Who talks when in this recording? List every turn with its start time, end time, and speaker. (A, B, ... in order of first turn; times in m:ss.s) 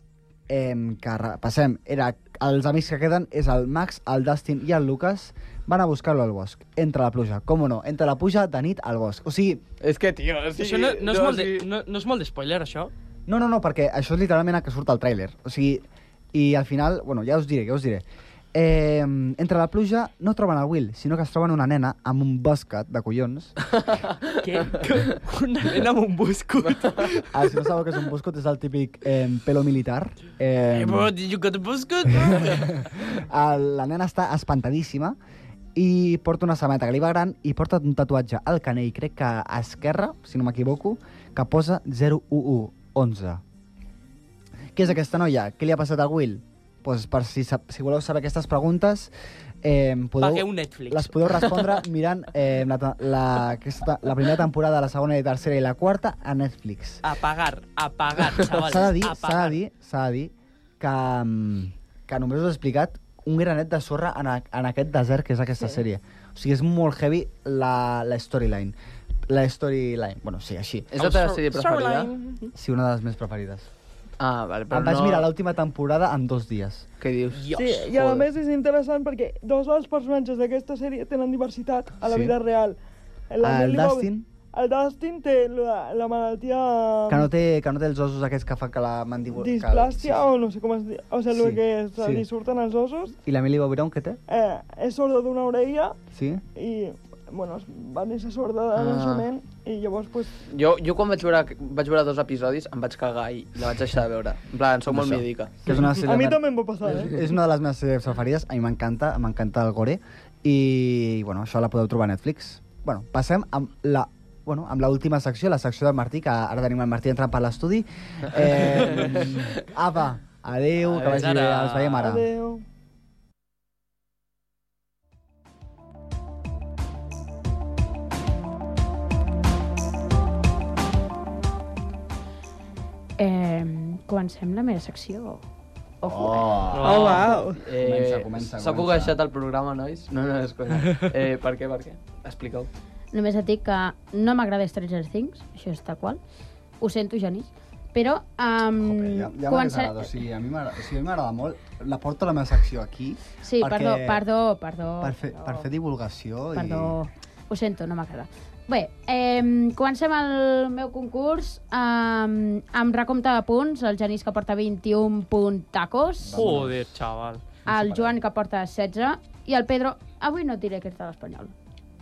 0:00.5-0:09.6 A
0:09.8-0:11.6 B
0:10.6-0:12.9 C
0:13.3-0:23.6 A
0:24.4-0:27.3 C
0:26.7-0:27.0 B
0:27.3-0:31.1 A
0:30.7-0:32.8 C
0:32.2-0:35.2 A
0:35.7-0:43.4 A
0:44.7-0:49.1 A
0:49.6-0:57.0 A
0:50.2-0:51.5 C
0:57.0-0:59.6 C
0:58.4-1:08.7 A
1:09.3-1:10.9 A
1:10.9-1:12.1 B
1:11.0-1:12.5 C
1:12.5-1:13.7 A
1:14.2-1:15.3 B
1:14.7-1:16.8 A
1:17.0-1:18.3 B
1:17.3-1:17.9 C
1:17.6-1:22.8 D
1:22.0-1:22.3 A
1:23.3-1:27.3 D
1:23.4-1:24.3 A
1:27.1-1:30.2 A
1:29.4-1:33.2 D
1:31.3-1:32.2 A
1:33.2-1:34.2 A
1:34.3-1:36.0 D
1:36.1-1:36.4 A
1:36.5-1:40.4 D
1:38.7-1:39.3 B
1:40.5-1:45.5 B
1:44.9-1:46.4 A
1:45.7-1:47.2 D
1:46.9-2:02.3 A
1:58.8-1:59.3 B
2:00.9-2:01.2 B
2:01.0-2:02.0 C
2:02.0-2:02.6 D
2:13.2-2:15.4 E
2:16.0-2:16.6 E
2:16.0-2:17.1 A
2:16.7-2:17.3 C
2:16.8-2:17.6 D
2:17.0-2:22.7 B
2:17.7-2:19.2 A
2:23.1-2:26.2 E
2:26.8-2:30.1 E
2:28.8-2:34.2 A
2:33.4-2:35.6 E
2:35.0-2:37.0 A
2:36.5-2:46.4 E
2:46.2-2:46.9 A
2:46.3-2:47.4 C
2:47.6-2:48.2 A
2:47.7-2:51.5 E